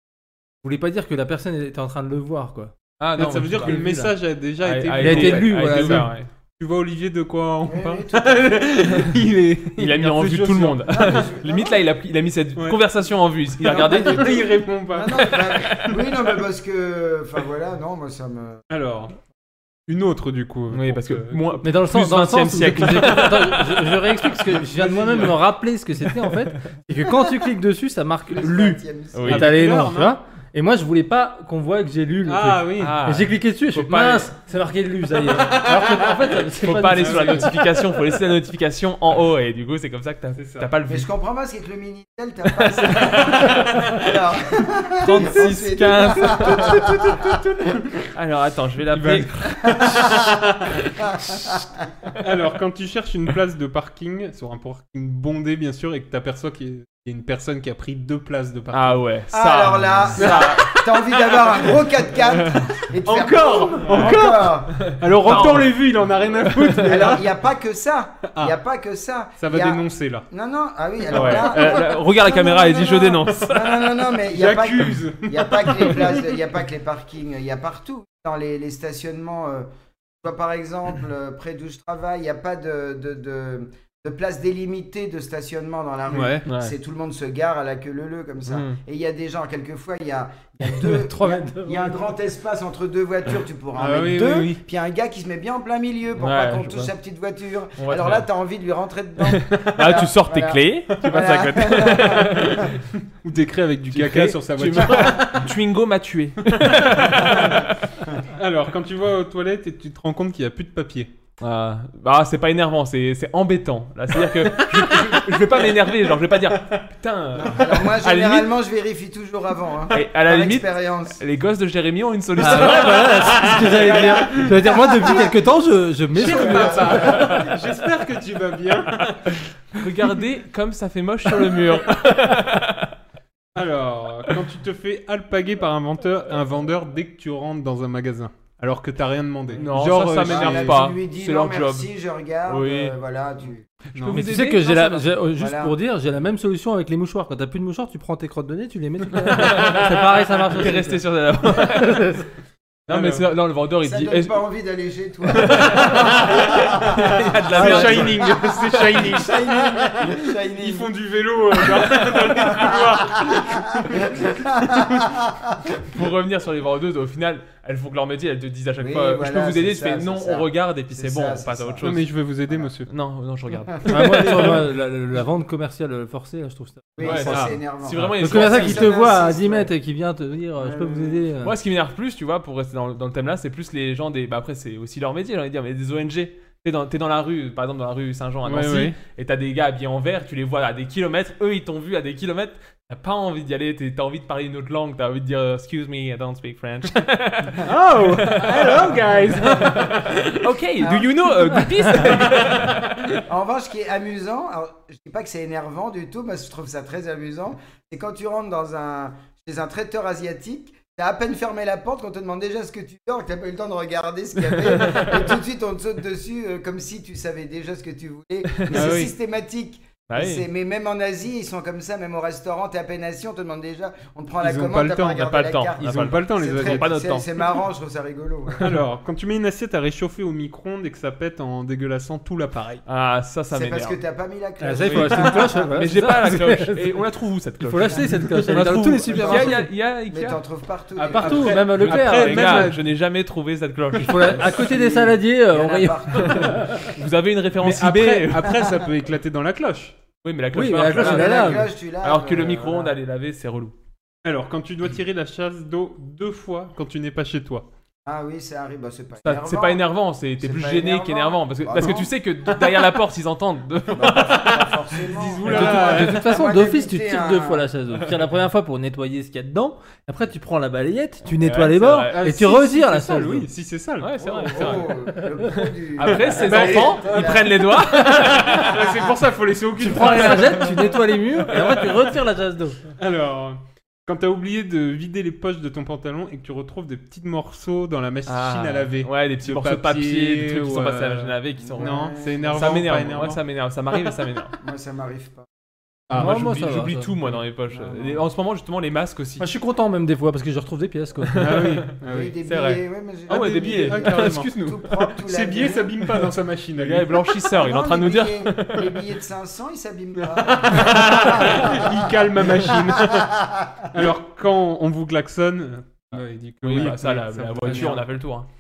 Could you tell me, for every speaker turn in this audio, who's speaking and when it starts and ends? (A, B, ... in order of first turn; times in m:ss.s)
0:00.6-0:02.7 A
0:03.0-0:04.1 B
0:03.2-0:11.2 C
0:03.6-0:04.1 A
0:04.6-0:06.3 B
0:05.0-0:06.1 A
0:07.6-0:08.7 D
0:09.8-0:14.4 B
0:10.9-0:11.8 D
0:13.6-0:16.4 C
0:13.6-0:18.6 D
0:18.7-0:19.1 C
0:19.9-0:21.6 C
0:20.7-0:23.7 B
0:21.6-0:37.6 A
0:22.8-0:23.3 C
0:24.6-0:25.4 C
0:28.3-0:29.3 D
0:29.1-0:29.5 B
0:29.3-0:30.1 C
0:32.2-0:33.0 C
0:32.8-0:34.3 B
0:35.3-0:36.3 C
0:36.6-0:41.1 B
0:37.0-0:37.6 C
0:40.4-0:40.7 C
0:40.9-0:47.4 D
0:42.6-0:43.8 B
0:45.0-0:50.0 B
0:48.9-0:50.7 C
0:49.6-0:50.4 D
0:51.1-0:51.8 D
0:52.2-0:59.0 C
0:58.7-1:00.8 B
0:59.3-1:05.5 D
1:00.1-1:01.9 C
1:03.0-1:07.3 C
1:03.9-1:04.1 B
1:04.7-1:05.8 B
1:06.4-1:07.1 B
1:06.8-1:19.7 D
1:08.3-1:08.6 C
1:09.4-1:10.2 C
1:11.0-1:11.8 C
1:11.1-1:13.9 B
1:14.1-1:16.4 C
1:20.2-1:42.8 D
1:26.1-1:26.4 C
1:26.4-1:26.7 B
1:28.5-1:28.8 B
1:30.7-1:32.1 A
1:33.7-1:34.6 C
1:36.2-1:36.9 B
1:37.8-1:38.3 B
1:39.3-1:42.6 B
1:43.2-1:45.5 C
1:43.9-1:47.7 B
1:44.8-1:45.2 D
1:46.5-1:47.7 C
1:48.4-1:51.1 C
1:51.4-1:58.5 B
1:54.2-1:55.4 C
1:56.3-1:56.8 C
1:57.4-2:01.2 D
1:59.9-2:03.5 B
2:02.4-2:07.3 A
2:03.4-2:05.5 D
2:04.0-2:04.4 C
2:06.2-2:09.3 C
2:06.2-2:07.5 D
2:06.9-2:07.4 B
2:09.8-2:12.9 B
2:13.6-2:20.8 C
2:19.6-2:21.9 B
2:20.2-2:23.7 D
2:22.5-2:23.0 B
2:24.0-2:25.0 B
2:24.1-2:32.3 A
2:25.3-2:25.7 D
2:29.3-2:30.0 B
2:30.5-2:32.1 B
2:32.9-2:33.3 C
2:32.9-2:34.3 B
2:33.8-2:37.1 D
2:35.4-2:38.4 B
2:35.4-2:44.1 C
2:37.5-2:38.1 A
2:37.8-2:40.9 D
2:41.6-2:45.7 D
2:45.9-2:52.1 B
2:48.8-2:51.9 D
2:51.8-2:52.9 C
2:52.9-2:54.5 B
2:53.9-2:57.4 A
2:57.0-2:59.7 D
2:57.0-2:58.9 B
2:57.3-2:57.6 C
2:58.2-3:01.6 A
3:00.6-3:01.2 D
3:01.4-3:23.2 B
3:08.4-3:09.0 C
3:17.6-3:20.3 C
3:20.8-3:22.6 D
3:23.3-3:48.7 D
3:34.7-3:35.0 B
3:38.5-3:39.0 B
3:38.7-3:39.1 C
3:40.1-3:40.4 B
3:44.4-3:46.9 C
3:45.2-3:47.3 B
3:48.6-3:52.8 C
3:52.9-3:54.0 B
3:53.5-3:55.8 D
3:54.6-3:57.0 A
3:54.8-4:00.4 B
3:57.6-3:59.7 A
3:59.1-4:01.8 D
4:01.0-4:02.8 C
4:01.0-4:02.7 A
4:01.7-4:04.5 B
4:04.0-4:06.8 A
4:04.4-4:06.8 D
4:06.3-4:08.5 B
4:07.6-4:10.0 C
4:08.4-4:08.7 D
4:10.2-4:13.7 B
4:10.5-4:11.7 A
4:10.9-4:13.0 D
4:14.2-4:17.7 C
4:18.0-4:22.1 D
4:19.2-4:24.6 B
4:23.9-4:27.7 D
4:24.3-4:26.3 C
4:25.4-4:33.5 A
4:31.4-4:32.2 B
4:32.1-4:34.1 C
4:34.0-4:38.8 B
4:34.2-4:37.6 D
4:36.2-4:40.9 C
4:39.8-4:42.8 A
4:43.0-4:53.4 C
4:48.3-4:54.5 B
4:51.6-4:52.9 D
4:54.6-4:55.5 D
4:56.1-4:56.5 C
4:56.1-4:57.2 A
4:56.1-4:59.5 B
4:57.7-4:58.2 D
4:59.4-5:01.4 A
5:01.3-5:01.8 B
5:01.4-5:02.3 C
5:02.1-5:06.1 D
5:02.4-5:04.9 B
5:03.3-5:04.5 C
5:05.2-5:07.1 C
5:06.8-5:08.9 B
5:07.4-5:13.9 D
5:10.2-5:13.3 C
5:13.9-5:18.0 C
5:16.1-5:18.5 B